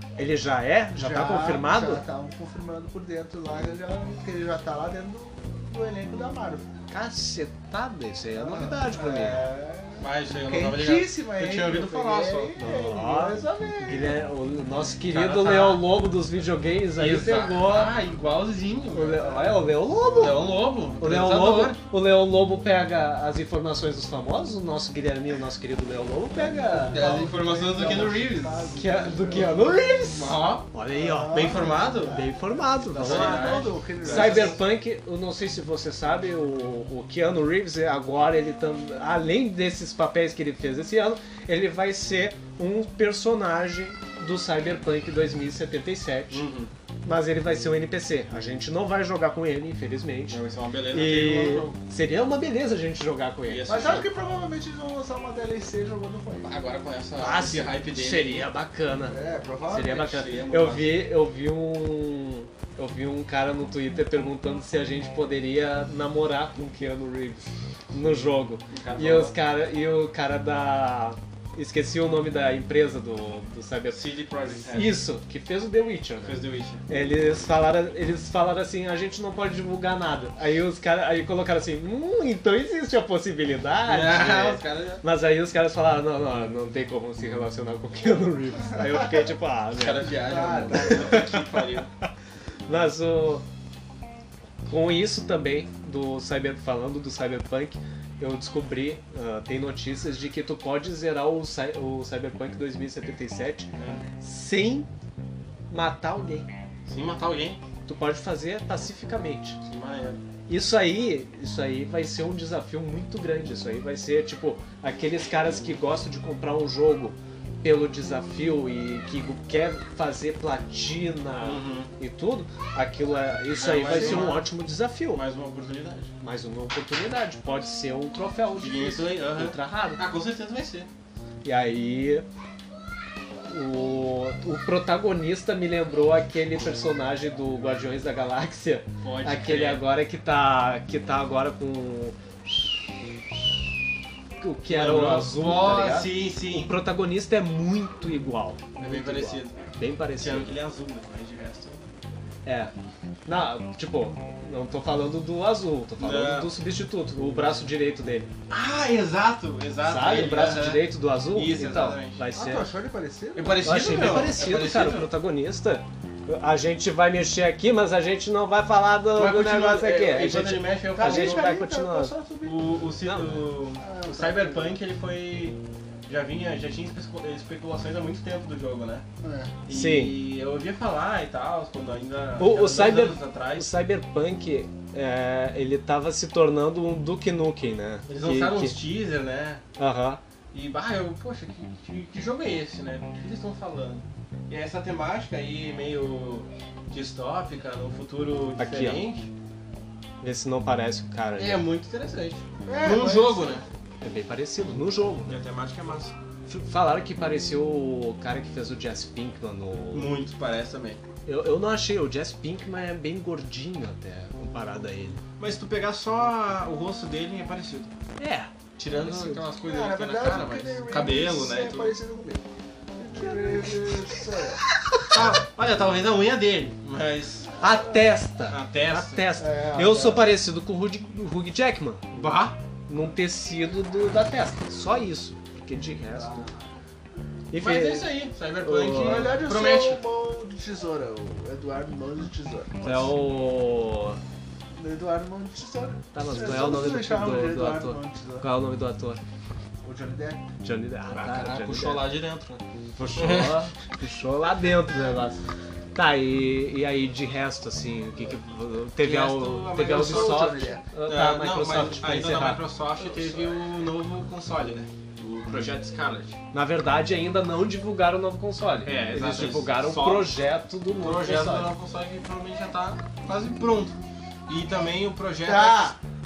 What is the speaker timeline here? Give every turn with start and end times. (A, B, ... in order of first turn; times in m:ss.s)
0:00.2-0:02.0 A
0:00.9-0:06.7 B
0:06.9-0:09.4 A
0:08.3-0:14.2 B
0:10.0-0:12.5 C
0:12.6-0:18.0 A
0:15.1-0:15.8 C
0:17.0-0:19.6 C
0:18.9-0:27.1 A
0:20.0-0:20.3 B
0:20.1-0:21.8 C
0:26.3-0:29.7 B
0:26.9-0:29.5 C
0:28.7-0:46.4 A
0:30.1-0:30.7 C
0:30.9-0:32.3 B
0:31.3-0:32.2 C
0:32.9-0:34.6 B
0:32.9-0:34.6 C
0:46.3-0:46.7 C
0:47.0-0:50.4 A
0:50.3-0:51.8 C
0:50.9-0:54.0 A
0:53.4-0:54.0 C
0:53.6-0:56.5 B
0:56.4-0:58.5 C
0:57.2-0:59.2 A
0:59.1-1:00.0 B
0:59.7-1:30.1 A
0:59.8-1:01.0 C
1:08.7-1:09.3 C
1:13.9-1:15.0 C
1:16.2-1:16.8 C
1:23.8-1:25.0 C
1:29.7-1:31.9 C
1:30.2-1:31.2 B
1:30.7-1:31.6 A
1:32.7-1:33.4 A
1:34.6-1:43.7 A
1:43.8-1:44.0 C
1:44.2-1:44.9 A
1:45.7-1:46.5 A
1:46.9-1:47.6 C
1:47.8-1:49.6 A
1:49.6-1:50.2 C
1:50.5-2:05.2 A
2:01.4-2:01.9 C
2:03.5-2:04.5 C
2:03.9-2:04.3 B
2:05.1-2:06.1 C
2:06.2-2:10.0 A
2:08.6-2:10.9 C
2:11.4-2:12.2 A
2:13.4-2:22.9 A
2:19.0-2:19.8 C
2:24.4-2:30.5 A
2:24.7-2:26.7 C
2:28.8-2:29.6 C
2:30.2-2:31.8 C
2:32.4-2:32.7 A
2:33.2-2:38.3 A
2:36.0-2:36.5 C
2:38.5-2:42.2 C
2:39.8-2:42.7 A
2:42.3-2:44.2 B
2:43.3-2:45.1 C
2:43.6-2:52.1 A
2:49.1-2:51.6 C
2:50.9-2:52.7 B
2:52.4-2:59.0 C
2:53.0-2:53.5 A
2:53.8-2:54.8 B
2:59.2-2:59.5 B
2:59.6-3:03.7 C
2:59.7-3:00.2 A
3:02.4-3:08.8 A
3:08.1-3:09.6 C
3:09.8-3:10.2 A
3:10.5-3:19.3 C
3:18.6-3:19.0 A
3:20.2-3:21.6 A
3:21.4-3:23.6 C
3:22.7-3:23.6 B
3:24.0-3:25.4 A
3:25.3-3:26.1 C
3:26.5-3:30.1 A
3:29.9-3:31.0 C
3:31.2-3:35.2 A
3:35.4-3:37.9 C
3:38.2-3:39.4 A
3:38.8-3:41.9 C
3:39.6-3:42.4 B
3:43.0-3:44.6 B
3:43.1-3:44.1 A
3:44.8-3:45.1 A
3:45.1-3:47.5 C
3:47.6-3:52.1 A
3:48.5-3:49.2 C
3:49.4-3:50.3 B
3:52.1-3:52.6 C
3:52.9-3:56.5 A
3:56.1-3:56.6 B
3:57.5-3:59.4 A
3:57.6-4:00.0 C
3:58.9-4:03.1 B
4:02.8-4:04.2 A
4:04.7-4:08.5 B
4:06.1-4:09.2 A
4:09.8-4:10.4 B
4:10.6-4:12.1 A
4:11.1-4:12.6 C
4:13.0-4:15.4 A
4:13.2-4:13.6 C
4:15.9-4:22.6 A
4:19.0-4:26.4 C
4:19.8-4:20.8 B
4:26.5-4:31.7 A
4:28.8-4:30.3 C
4:31.0-4:33.9 C
4:34.5-4:35.9 C
4:35.4-4:36.0 B